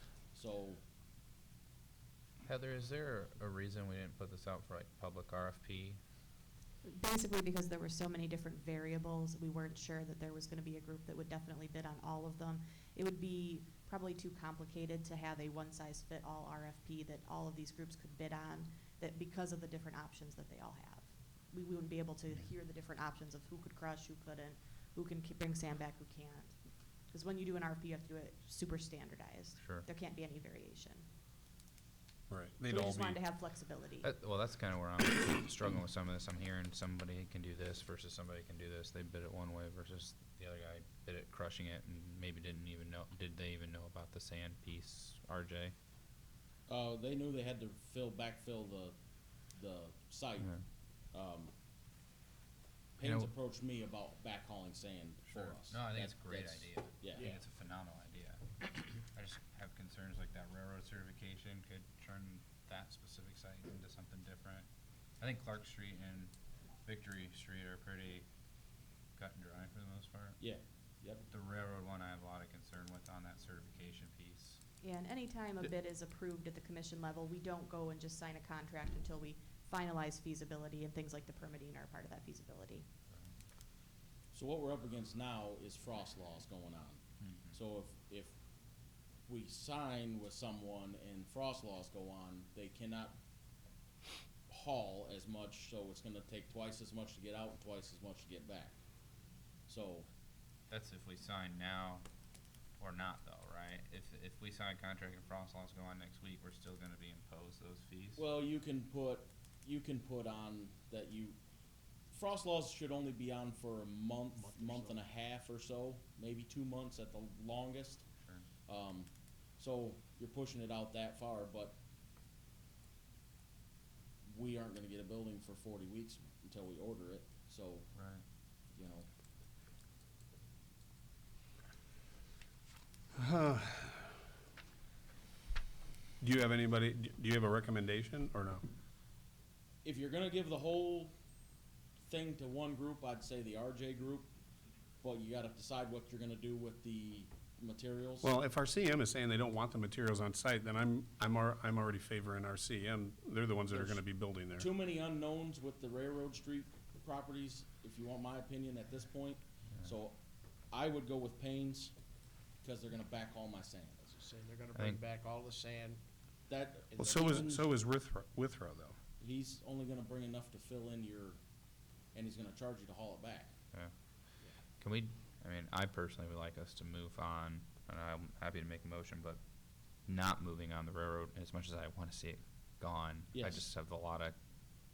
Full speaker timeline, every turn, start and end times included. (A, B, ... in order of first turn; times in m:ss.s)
0:00.3-0:00.8 A
0:02.4-0:06.0 B
0:06.8-0:26.6 C
0:27.1-0:31.0 C
0:29.6-0:29.8 B
0:32.3-0:33.2 D
0:32.7-0:34.1 C
0:34.0-0:45.7 B
0:46.7-0:49.0 A
0:49.5-0:50.5 A
0:51.1-0:51.5 A
0:53.0-0:57.3 A
0:53.0-0:53.3 B
0:55.3-0:58.4 B
0:59.0-1:04.6 B
1:05.2-1:06.3 B
1:06.8-1:08.2 B
1:09.2-1:10.4 B
1:10.4-1:11.2 A
1:11.3-1:14.6 B
1:14.8-1:22.8 C
1:24.3-1:28.4 A
1:27.2-1:27.6 B
1:29.3-1:33.2 A
1:34.5-1:38.8 A
1:39.7-1:40.1 A
1:40.7-1:42.0 B
1:42.8-1:48.2 B
1:48.2-1:51.4 A
1:52.1-1:58.0 A
1:54.4-1:55.0 E
1:58.2-1:58.4 B
1:58.6-2:01.8 A
2:04.2-2:07.9 A
2:07.9-2:08.2 B
2:08.7-2:09.1 A
2:13.1-2:14.0 D
2:16.2-2:18.6 D
2:19.8-2:21.1 A
2:22.0-2:24.3 A
2:25.0-2:28.3 A
2:28.2-2:34.7 D
2:33.7-2:34.0 A
2:34.6-2:40.2 A
2:40.7-2:41.9 A
2:42.6-2:44.2 A
2:44.1-2:46.0 E
2:44.7-2:45.0 B
2:46.5-2:47.6 A
2:47.0-2:49.0 D
2:49.2-2:51.4 A
2:52.1-2:53.5 A
2:54.8-2:59.4 B
3:00.0-3:04.3 B
3:03.3-3:03.7 A